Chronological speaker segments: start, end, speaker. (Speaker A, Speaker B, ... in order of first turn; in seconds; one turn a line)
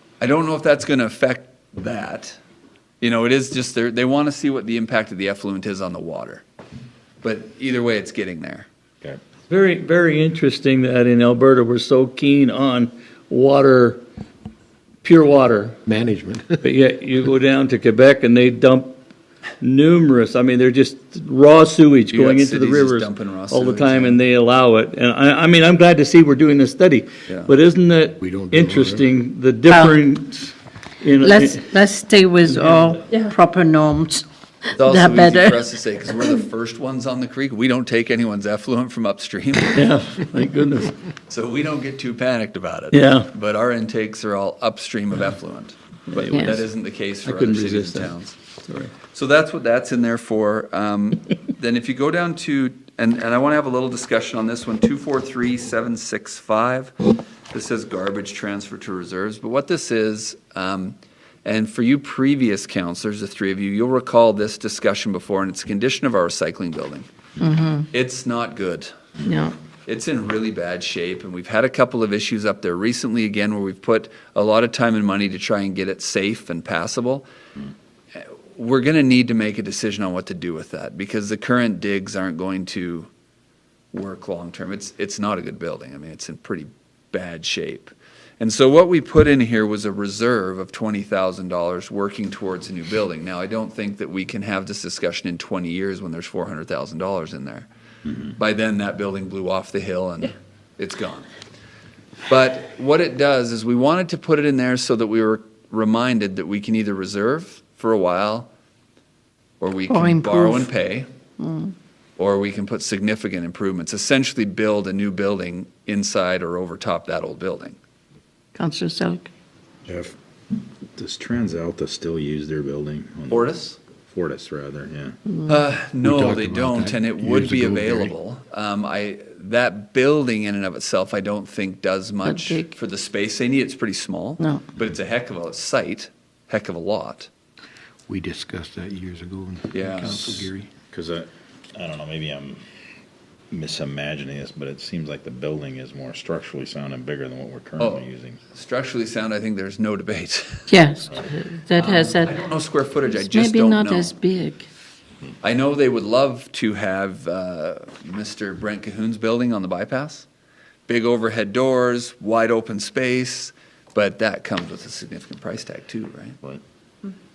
Speaker A: 0.2-2.4
Speaker A: 3.0-6.4
Speaker A: 7.2-8.7
Speaker B: 9.5-14.0
Speaker B: 15.0-15.8
Speaker C: 15.8-16.6
Speaker B: 16.6-19.0
Speaker B: 19.6-31.7
Speaker A: 22.1-24.2
Speaker A: 27.3-27.5
Speaker C: 28.2-29.1
Speaker D: 29.7-30.0
Speaker D: 31.2-34.2
Speaker B: 32.4-33.1
Speaker A: 34.7-39.8
Speaker D: 34.8-35.7
Speaker B: 39.7-40.9
Speaker A: 41.3-48.4
Speaker B: 42.9-43.3
Speaker B: 46.1-46.6
Speaker B: 47.2-48.1
Speaker B: 48.7-48.9
Speaker A: 49.1-56.9
Speaker A: 57.5-67.1
Speaker D: 67.4-67.9
Speaker A: 67.9-68.9
Speaker D: 69.2-69.5
Speaker A: 69.8-77.2
Speaker A: 78.1-83.1
Speaker A: 83.9-97.7
Speaker A: 98.3-101.3
Speaker A: 102.3-108.5
Speaker A: 109.6-111.1
Speaker D: 109.9-110.7
Speaker D: 111.4-111.7
Speaker A: 112.2-117.8
Speaker D: 118.5-119.3
Speaker E: 119.8-125.2
Speaker A: 123.3-123.8
Speaker A: 125.5-137.3
Speaker C: 126.0-128.1
Speaker D: 132.2-132.7
Speaker C: 138.1-140.7
Speaker A: 139.7-140.5
Speaker E: 140.9-142.6
Speaker E: 143.5-148.4
Speaker A: 147.8-150.7
Speaker D: 150.7-152.4
Speaker A: 151.7-154.1
Speaker D: 153.1-154.7
Speaker A: 155.4-160.3
Speaker A: 160.9-166.4